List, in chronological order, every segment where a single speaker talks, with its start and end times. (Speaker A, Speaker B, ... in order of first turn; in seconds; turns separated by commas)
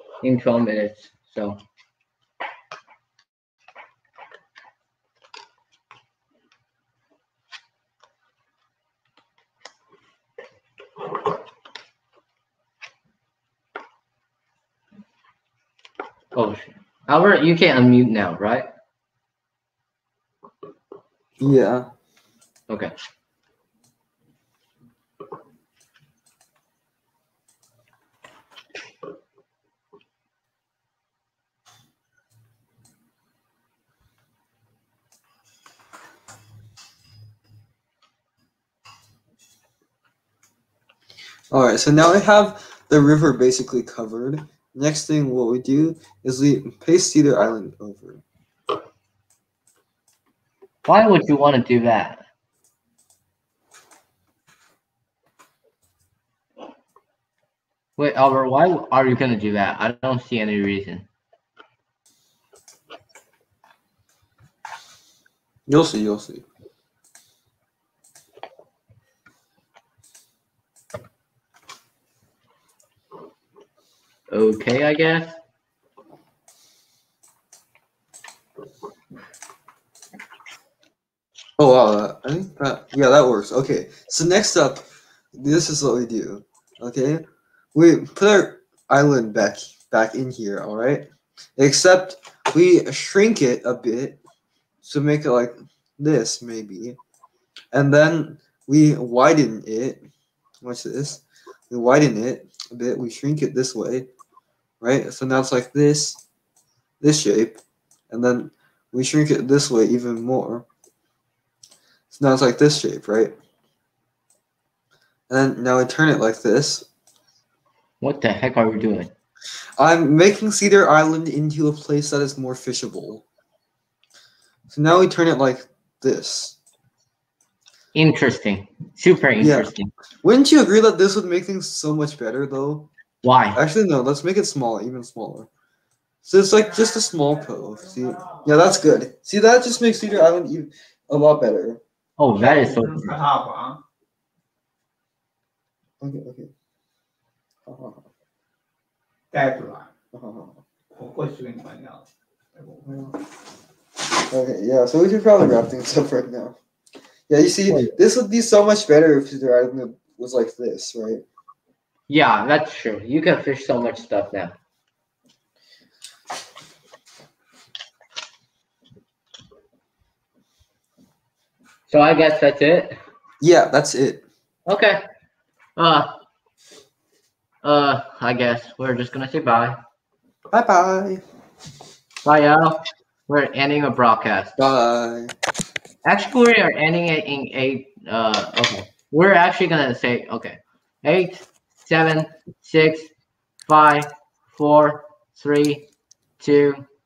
Speaker A: 0.2-1.6, Speaker A: 16.3-18.7, Speaker B: 21.4-21.9, Speaker B: 41.5-48.2, Speaker A: 50.9-52.2, Speaker A: 58.0-61.1, Speaker B: 65.7-66.5, Speaker A: 74.3-75.4, Speaker B: 81.6-94.2, Speaker B: 94.8-97.0, Speaker B: 97.7-100.1, Speaker B: 100.6-104.1, Speaker B: 104.8-106.2, Speaker B: 107.0-110.7, Speaker B: 112.1-113.3, Speaker B: 115.3-116.9, Speaker A: 118.0-119.1, Speaker B: 119.8-123.2, Speaker B: 124.7-126.6, Speaker A: 127.9-129.9, Speaker B: 129.4-129.7, Speaker B: 130.2-132.9, Speaker A: 133.2-133.6, Speaker B: 133.6-135.5, Speaker B: 136.2-141.8, Speaker A: 142.2-143.2, Speaker C: 142.4-143.8, Speaker B: 146.0-146.5, Speaker B: 147.7-148.0, Speaker C: 149.3-149.9, Speaker B: 150.1-150.6, Speaker C: 151.0-152.9, Speaker B: 152.8-153.2, Speaker B: 154.3-156.6, Speaker B: 157.3-161.2, Speaker A: 157.7-157.9, Speaker A: 162.1-164.6, Speaker A: 171.9-173.0, Speaker B: 173.4-174.2, Speaker A: 174.7-175.0, Speaker A: 175.8-176.1, Speaker A: 177.6-179.8, Speaker B: 180.5-181.2, Speaker A: 182.2-184.7, Speaker B: 184.6-185.3, Speaker A: 186.1-193.1, Speaker A: 193.7-195.9, Speaker A: 196.4-196.8